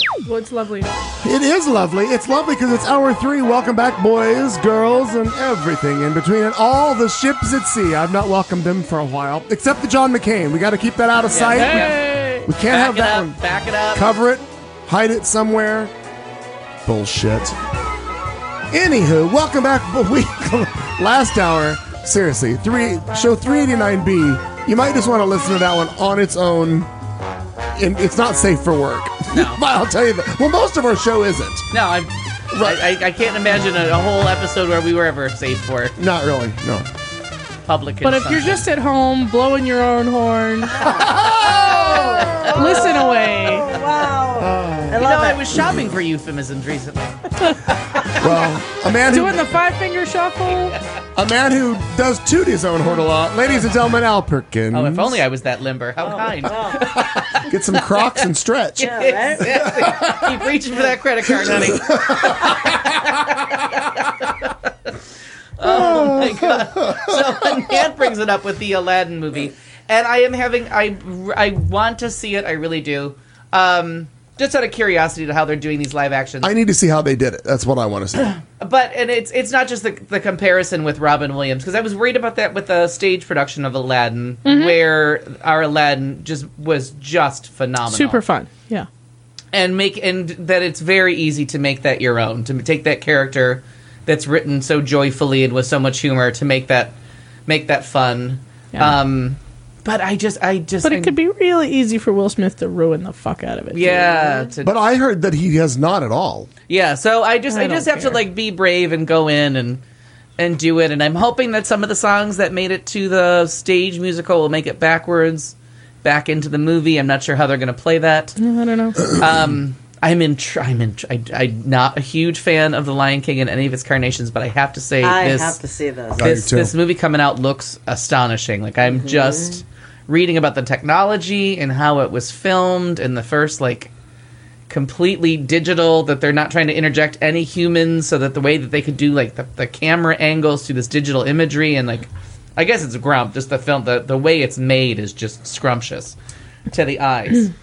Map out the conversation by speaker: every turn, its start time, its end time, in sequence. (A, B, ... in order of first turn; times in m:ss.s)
0:00.2-0:00.9 A
0:01.2-0:13.4 B
0:11.3-0:12.0 C
0:11.5-0:12.5 A
0:12.6-0:14.1 C
0:13.9-0:15.9 B
0:16.8-0:17.6 B
0:18.7-0:26.9 B
0:27.8-0:31.7 B
0:29.3-0:29.6 C
0:31.7-0:36.0 C
0:32.5-0:32.8 B
0:36.0-0:36.9 B
0:37.7-0:38.7 C
0:38.0-0:40.9 A
0:40.7-0:45.6 D
0:40.8-0:42.8 B
0:42.4-0:43.7 A
0:44.4-0:45.9 B
0:45.0-0:47.3 C
0:48.1-0:49.6 B
0:49.1-0:50.8 A
0:51.2-0:55.2 B
0:54.7-0:58.2 C
0:56.0-0:56.9 D
0:56.8-1:00.2 B
0:58.8-1:04.9 C
0:58.8-0:59.7 D
1:01.3-1:02.9 B
1:05.6-1:16.5 C
1:05.6-1:07.8 B
1:16.4-1:18.3 B
1:18.4-1:28.2 C
1:24.4-1:24.8 A
1:27.9-1:28.9 A
1:29.5-1:37.0 C
1:37.5-1:41.2 C
1:40.8-1:44.1 A
1:43.7-1:44.8 C
1:44.6-1:46.5 B
1:46.7-1:49.8 C
1:47.5-1:48.2 A
1:50.4-1:58.4 C
1:58.4-1:59.0 A
1:59.0-2:05.6 C
2:05.0-2:06.3 D
2:06.2-2:06.7 B
2:06.2-2:13.9 C
2:08.9-2:09.5 D
2:14.7-2:26.2 C
2:26.7-2:27.5 C